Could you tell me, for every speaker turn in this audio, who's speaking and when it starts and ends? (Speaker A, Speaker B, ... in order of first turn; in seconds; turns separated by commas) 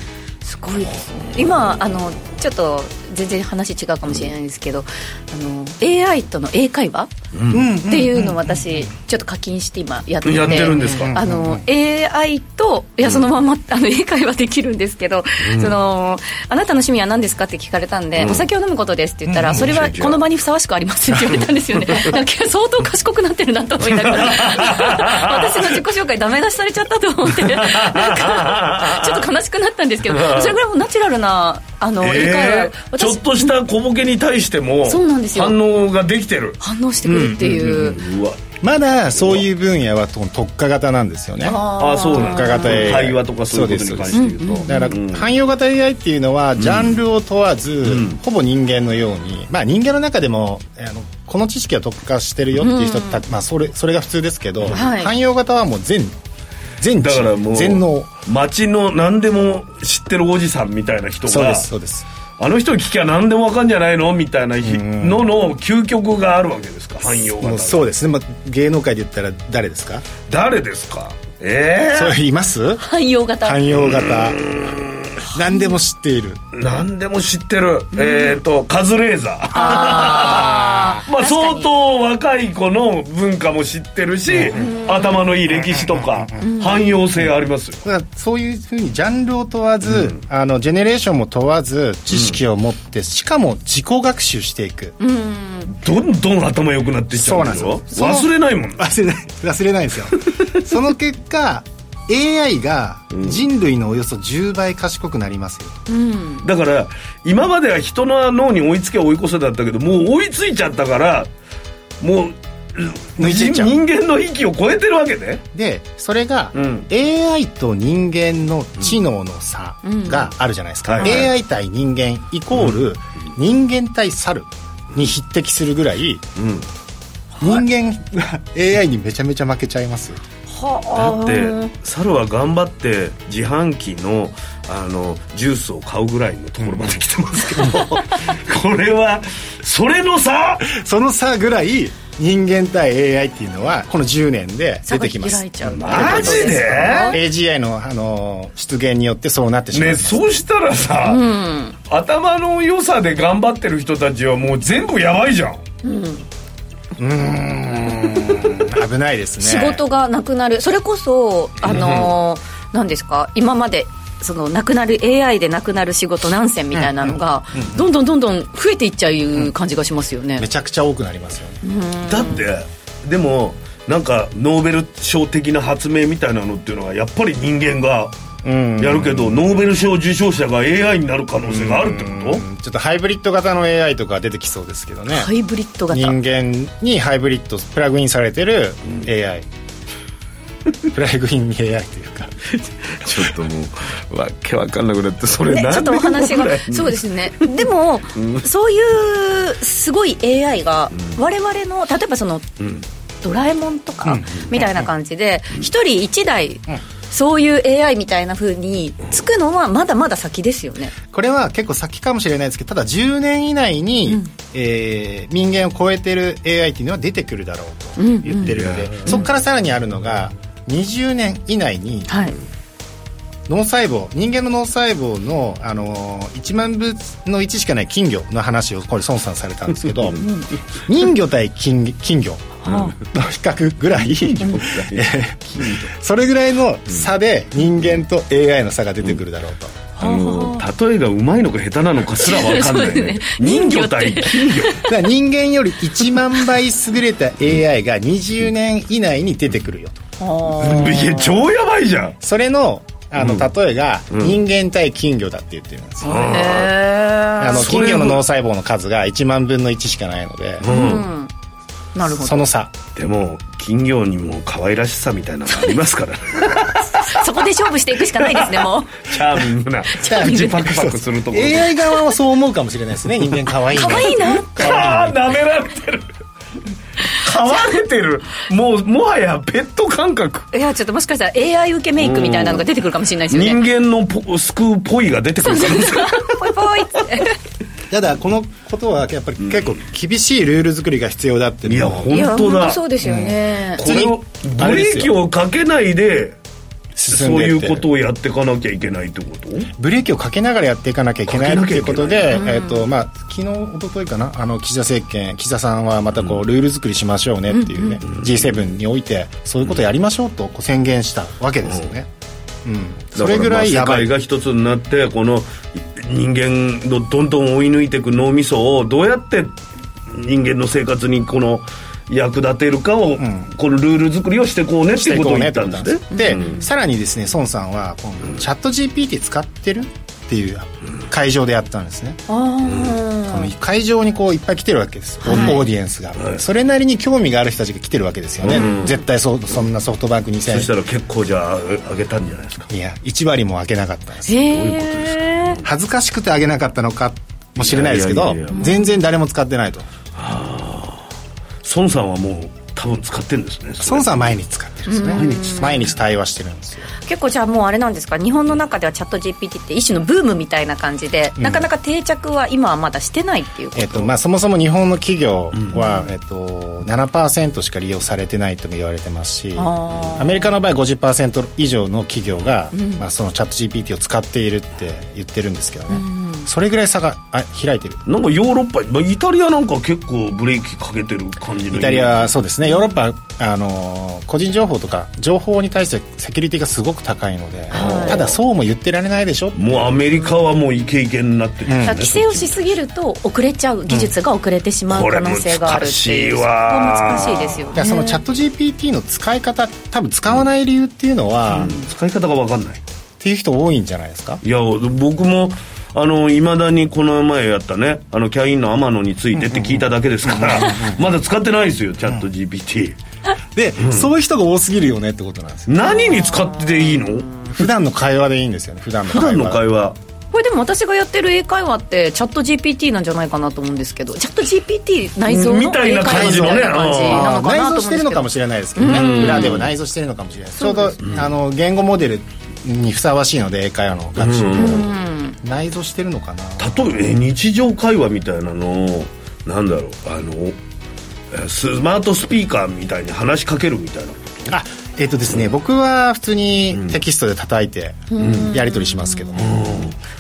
Speaker A: 0.4-7.1, Speaker B: 7.3-7.7, Speaker C: 7.5-8.9, Speaker A: 7.9-33.5, Speaker B: 10.2-11.2, Speaker C: 10.4-11.6, Speaker B: 15.4-15.7, Speaker B: 18.2-18.4, Speaker C: 19.3-19.6, Speaker B: 19.5-20.2, Speaker B: 21.3-22.1, Speaker B: 23.8-25.8, Speaker B: 27.3-29.3, Speaker B: 30.1-30.6, Speaker B: 32.0-38.4, Speaker A: 34.9-35.5, Speaker A: 36.6-38.0, Speaker C: 37.5-37.8, Speaker C: 38.6-56.2, Speaker B: 39.2-39.5, Speaker A: 41.4-42.8, Speaker B: 41.8-45.3, Speaker A: 44.1-44.8, Speaker B: 46.6-47.0, Speaker B: 47.9-48.2, Speaker A: 52.6-53.2, Speaker A: 54.7-55.1, Speaker C: 56.8-58.1, Speaker B: 57.0-61.7, Speaker C: 61.3-62.1, Speaker B: 62.4-67.9, Speaker C: 64.6-65.3, Speaker C: 67.4-70.1, Speaker B: 70.3-72.2, Speaker C: 71.9-72.8, Speaker A: 72.8-73.6, Speaker C: 73.4-74.4, Speaker B: 73.7-75.1, Speaker C: 75.3-76.4, Speaker B: 76.5-87.8, Speaker A: 77.9-78.4, Speaker A: 79.5-81.7, Speaker C: 80.3-80.9, Speaker C: 84.3-84.7, Speaker A: 84.6-85.2, Speaker C: 85.5-86.4, Speaker A: 86.4-86.9, Speaker C: 87.8-95.0, Speaker B: 89.8-90.2, Speaker A: 95.0-95.7, Speaker B: 95.7-98.9, Speaker C: 97.1-105.8, Speaker B: 103.1-103.4, Speaker A: 105.9-106.5, Speaker B: 106.4-111.3, Speaker B: 112.0-115.4, Speaker C: 113.2-113.8, Speaker C: 115.5-126.2, Speaker B: 116.5-116.9, Speaker A: 119.8-120.3, Speaker B: 120.9-121.3, Speaker B: 126.4-126.7, Speaker C: 127.4-130.2, Speaker A: 130.5-131.7, Speaker B: 131.0-140.7, Speaker C: 140.6-150.2, Speaker A: 144.9-147.2, Speaker B: 145.7-147.2, Speaker B: 149.7-151.3, Speaker A: 151.1-151.8, Speaker B: 151.9-155.6, Speaker A: 155.8-156.3, Speaker C: 157.0-159.8, Speaker A: 159.4-170.4, Speaker B: 161.6-162.1, Speaker C: 166.7-167.8, Speaker C: 170.4-171.6, Speaker A: 171.6-172.4, Speaker B: 172.1-178.2, Speaker C: 178.4-179.5, Speaker B: 178.8-182.4, Speaker C: 181.4-185.3, Speaker A: 185.1-186.2, Speaker C: 185.9-189.5, Speaker C: 190.9-192.4, Speaker B: 192.5-197.6, Speaker A: 195.5-202.5, Speaker B: 198.2-198.4, Speaker A: 203.2-210.9, Speaker C: 204.1-204.6, Speaker C: 211.1-222.3, Speaker A: 218.0-218.5, Speaker B: 218.4-219.2, Speaker A: 222.1-222.3, Speaker C: 223.5-230.2, Speaker A: 230.2-230.5, Speaker C: 230.9-239.8, Speaker A: 232.7-232.9, Speaker B: 232.7-233.1, Speaker B: 234.0-235.9, Speaker A: 240.0-240.6, Speaker B: 240.0-244.8, Speaker A: 242.2-244.9, Speaker C: 244.8-250.0, Speaker A: 250.2-251.4, Speaker B: 250.6-252.2, Speaker C: 252.2-256.5, Speaker B: 253.2-253.5, Speaker B: 254.1-254.4, Speaker B: 256.0-256.8, Speaker A: 256.1-257.7, Speaker C: 257.4-260.7, Speaker B: 257.5-258.2, Speaker B: 260.6-261.1, Speaker A: 260.7-261.3, Speaker A: 261.9-262.5, Speaker C: 262.0-262.8, Speaker B: 263.0-267.2, Speaker A: 266.8-269.0, Speaker B: 268.1-271.8, Speaker A: 269.9-270.7, Speaker C: 270.0-275.2, Speaker A: 273.8-274.7, Speaker B: 273.9-276.1, Speaker B: 277.2-280.5, Speaker A: 277.5-277.8, Speaker A: 280.5-283.6, Speaker B: 282.0-282.7, Speaker B: 283.3-286.5, Speaker A: 285.4-287.4, Speaker C: 287.9-292.3, Speaker B: 291.7-292.8, Speaker A: 292.1-293.8, Speaker C: 293.0-295.1, Speaker B: 293.8-296.4, Speaker C: 297.0-297.9, Speaker B: 297.1-299.7, Speaker C: 299.8-312.1, Speaker B: 301.3-302.4, Speaker A: 302.3-302.9, Speaker A: 307.5-308.0, Speaker C: 312.6-314.1, Speaker B: 313.1-319.6, Speaker B: 320.1-326.6, Speaker C: 323.2-323.5, Speaker C: 324.9-332.2, Speaker A: 326.1-326.6, Speaker A: 332.3-333.5, Speaker B: 332.7-332.9, Speaker C: 333.3-340.7, Speaker A: 335.2-335.6, Speaker B: 335.3-335.6, Speaker B: 336.2-336.4, Speaker B: 338.4-338.9, Speaker A: 338.6-338.9, Speaker B: 340.5-342.7, Speaker C: 342.7-344.5, Speaker A: 344.3-345.6, Speaker B: 344.5-345.6, Speaker C: 345.6-349.9, Speaker B: 347.6-348.7, Speaker A: 348.5-348.9, Speaker B: 350.2-351.1, Speaker B: 351.6-354.3, Speaker C: 353.8-356.9, Speaker A: 354.9-355.9, Speaker B: 355.1-355.9, Speaker A: 357.1-364.1, Speaker C: 361.4-361.7, Speaker C: 363.8-378.0, Speaker A: 369.6-370.5, Speaker A: 372.7-373.0, Speaker A: 375.9-376.5, Speaker B: 378.1-382.3, Speaker C: 381.7-390.0, Speaker A: 387.7-388.2, Speaker B: 387.7-388.4, Speaker B: 389.6-392.6, Speaker C: 391.7-392.0, Speaker A: 391.9-398.2, Speaker B: 394.9-397.7, Speaker C: 397.8-401.8, Speaker B: 401.5-402.8, Speaker A: 401.6-401.9, Speaker C: 403.2-404.4, Speaker B: 404.4-413.0, Speaker C: 409.4-411.1, Speaker C: 413.6-416.0, Speaker B: 413.8-414.1, Speaker B: 415.7-417.5, Speaker A: 415.9-417.2, Speaker C: 417.5-419.6, Speaker B: 419.1-420.0, Speaker A: 420.3-429.6, Speaker B: 425.3-427.2, Speaker C: 426.1-437.0, Speaker B: 428.8-429.7, Speaker A: 430.6-431.0, Speaker B: 431.0-431.3, Speaker B: 434.2-434.9, Speaker A: 434.6-435.4, Speaker B: 436.6-440.6, Speaker B: 441.3-444.5, Speaker C: 444.5-449.6, Speaker A: 448.1-449.4, Speaker B: 448.2-448.5, Speaker B: 449.4-450.0